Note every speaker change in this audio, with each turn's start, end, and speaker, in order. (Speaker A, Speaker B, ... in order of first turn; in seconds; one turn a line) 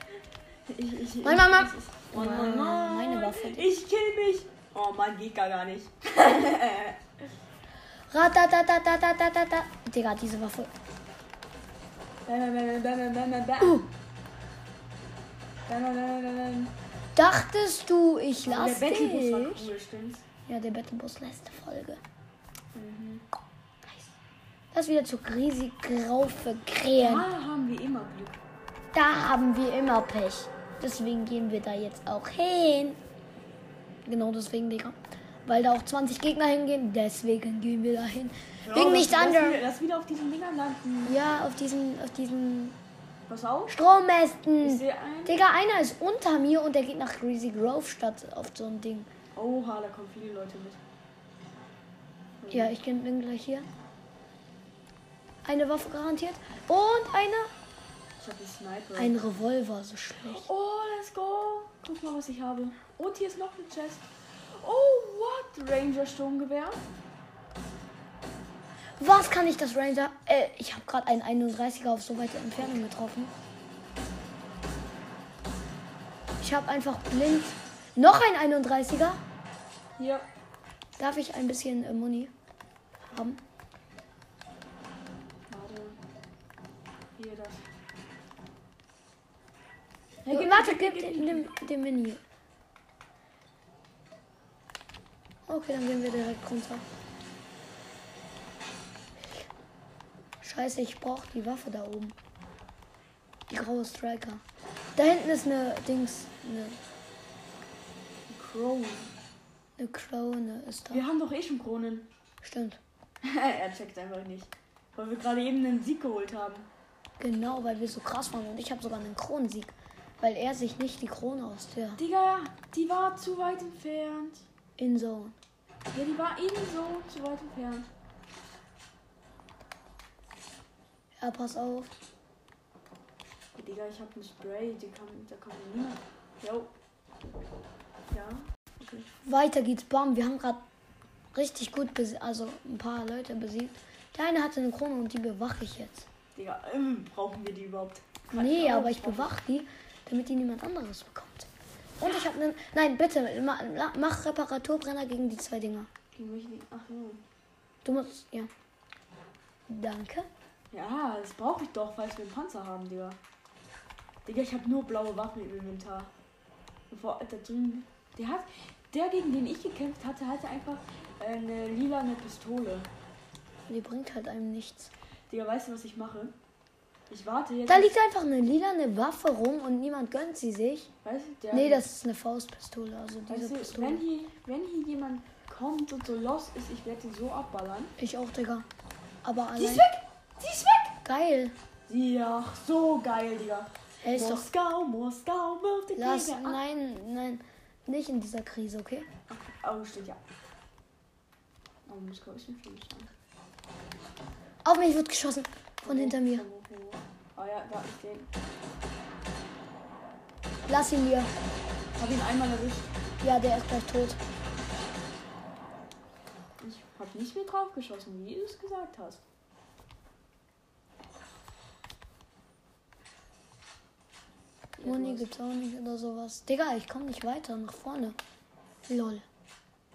Speaker A: 0.7-7.0
Speaker B: 1.2-3.7
Speaker B: 8.1-10.7
Speaker A: 12.3-13.9
Speaker B: 13.6-13.9
Speaker A: 15.7-16.7
Speaker B: 17.1-19.7
Speaker A: 18.4-20.2
Speaker B: 20.5-22.0
Speaker A: 22.7-23.2
Speaker B: 24.7-27.3
Speaker A: 27.0-28.4
Speaker B: 28.9-33.0
Speaker B: 34.1-39.6
Speaker A: 38.6-41.2
Speaker B: 41.0-42.8
Speaker A: 43.3-43.8
Speaker B: 43.7-49.1
Speaker A: 44.6-45.4
Speaker A: 49.4-50.8
Speaker A: 52.4-52.8
Speaker B: 52.5-53.7
Speaker B: 55.4-57.5
Speaker A: 58.2-59.2
Speaker B: 59.0-60.5
Speaker A: 60.3-66.8
Speaker B: 69.0-73.3
Speaker B: 76.4-79.2
Speaker A: 80.0-80.3
Speaker B: 81.0-82.3
Speaker B: 83.1-83.4
Speaker A: 85.5-86.0
Speaker A: 87.2-87.6
Speaker A: 90.3-91.5
Speaker B: 90.3-92.2
Speaker B: 95.5-96.8
Speaker B: 100.4-102.2
Speaker B: 103.5-104.4
Speaker B: 105.0-106.8
Speaker A: 108.3-109.1
Speaker B: 109.8-111.0
Speaker A: 110.9-112.1
Speaker B: 112.4-112.8
Speaker A: 113.2-116.7
Speaker B: 117.2-122.0
Speaker A: 122.0-124.5
Speaker B: 124.8-125.4
Speaker A: 125.9-127.9
Speaker B: 131.2-131.9
Speaker A: 133.6-136.7
Speaker A: 138.1-139.1
Speaker B: 139.2-140.6
Speaker B: 141.3-146.1
Speaker A: 146.4-149.3
Speaker B: 148.3-151.5
Speaker B: 152.0-155.9
Speaker A: 156.2-157.2
Speaker B: 157.8-158.5
Speaker B: 159.7-160.3
Speaker A: 160.7-163.2
Speaker A: 164.2-166.1
Speaker A: 166.9-172.9
Speaker B: 173.7-174.9
Speaker A: 175.3-176.4
Speaker A: 177.1-177.9
Speaker B: 177.7-180.9
Speaker A: 181.0-181.9
Speaker B: 181.5-184.0
Speaker A: 183.3-187.9
Speaker B: 188.0-188.7
Speaker B: 189.2-189.9
Speaker A: 189.6-191.0
Speaker B: 191.0-191.6
Speaker A: 191.9-196.6
Speaker B: 194.0-194.5
Speaker B: 196.0-199.1
Speaker A: 199.3-200.2
Speaker A: 201.9-203.1
Speaker B: 204.6-206.4
Speaker A: 205.8-208.3
Speaker B: 210.7-211.3
Speaker A: 212.0-212.9
Speaker B: 213.2-214.2
Speaker A: 216.6-219.2
Speaker A: 224.8-225.3
Speaker B: 224.8-228.2
Speaker B: 228.9-229.2